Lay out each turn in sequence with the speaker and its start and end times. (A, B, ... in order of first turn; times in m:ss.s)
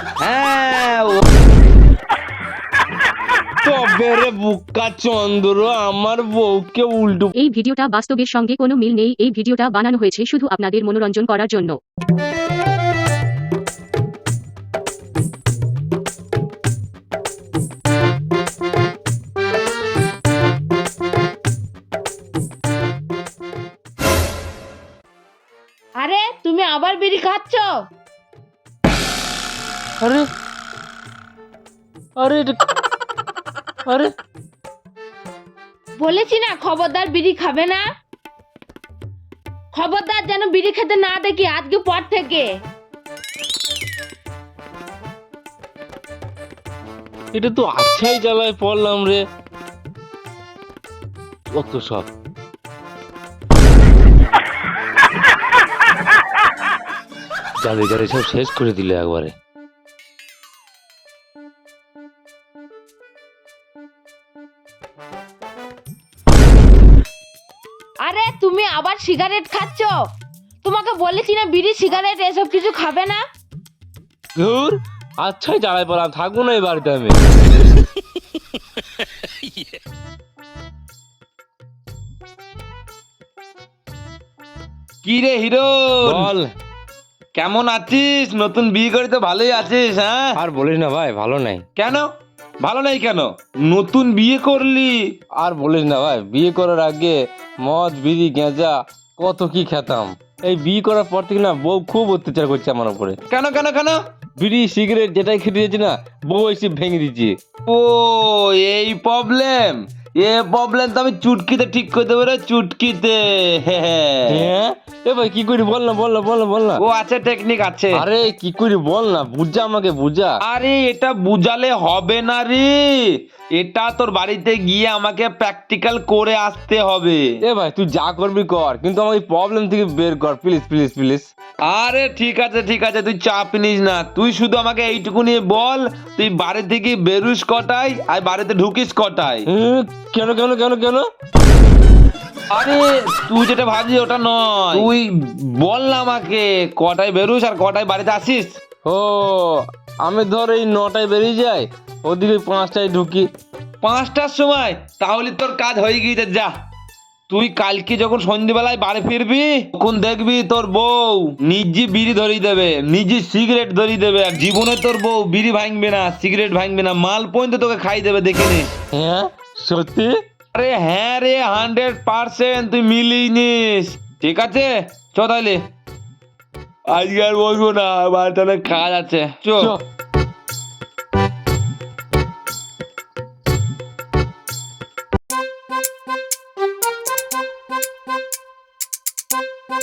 0:00.2-0:01.2 A
0:03.6-0:07.3 B
0:07.4-0:11.8 C
0:26.0-0:27.8 D
0:30.0-0:30.3 B
0:32.2-0:32.6 B
0:33.8-0:34.1 B
0:36.0-0:37.8 D
0:39.7-0:42.5 D
0:47.3-0:49.2 B
0:51.5-0:52.1 B
0:57.6-0:59.3 B
1:08.0-1:10.0 D
1:10.6-1:13.2 D
1:14.4-1:17.2 B
1:19.2-1:19.8 B
1:25.0-1:26.3 A
1:26.0-1:26.5 B
1:27.3-1:30.4 A
1:30.4-1:31.6 B
1:31.7-1:32.0 A
1:32.6-1:35.0 A
1:35.4-1:43.2 B
1:43.3-1:44.0 A
1:44.4-1:47.4 B
1:47.7-1:54.5 A
1:54.3-1:56.8 B
1:56.8-1:58.0 A
1:57.9-2:00.4 B
2:00.4-2:07.3 A
2:07.4-2:11.3 B
2:11.6-2:19.5 A
2:19.5-2:21.0 B
2:22.5-2:28.6 A
2:28.8-2:33.3 B
2:33.8-2:36.5 A
2:37.3-2:48.7 A
2:48.9-2:50.2 B
2:50.5-2:55.6 A
2:56.9-2:59.8 A